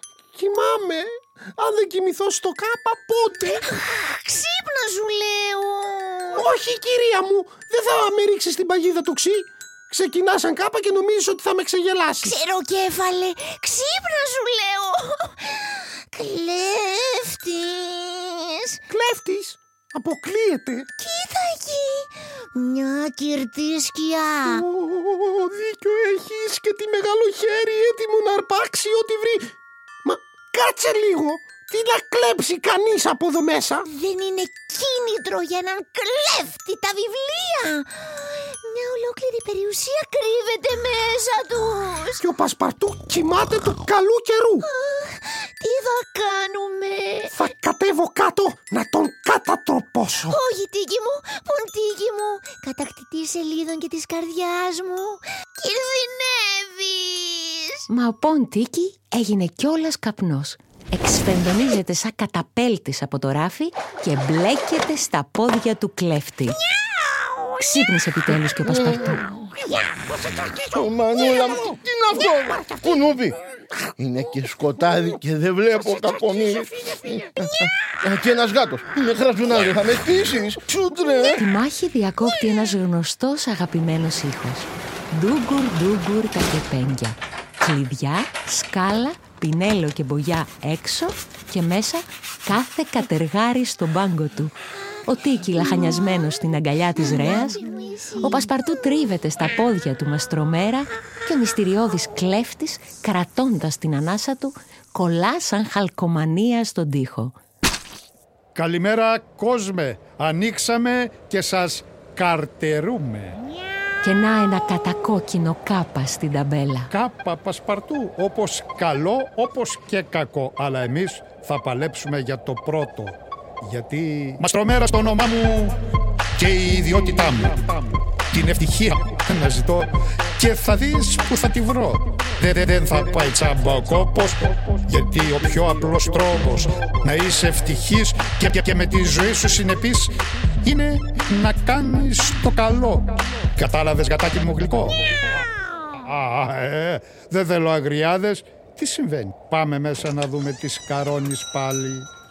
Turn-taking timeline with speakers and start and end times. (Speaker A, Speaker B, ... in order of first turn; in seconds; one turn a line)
Speaker A: 0.3-3.7
Speaker B: 3.4-6.4
Speaker A: 6.3-12.4
Speaker B: 12.2-18.8
Speaker A: 18.9-20.9
Speaker B: 21.0-24.6
Speaker A: 24.4-29.5
Speaker A: 30.1-33.9
Speaker B: 33.9-42.2
Speaker A: 42.2-44.7
Speaker B: 44.6-47.4
Speaker A: 47.3-50.4
Speaker B: 50.3-57.9
Speaker C: 57.9-66.6
Speaker C: 67.6-69.2
Speaker A: 70.2-70.6
Speaker D: 70.7-73.4
Speaker D: 74.0-81.4
Speaker C: 81.2-94.5
Speaker C: 95.1-97.6
Speaker B: 95.6-98.5
Speaker C: 98.2-107.4
Speaker E: 108.5-113.4
Speaker C: 114.0-116.9
Speaker E: 116.9-125.8
Speaker E: 126.4-145.0
Speaker E: 146.0-152.1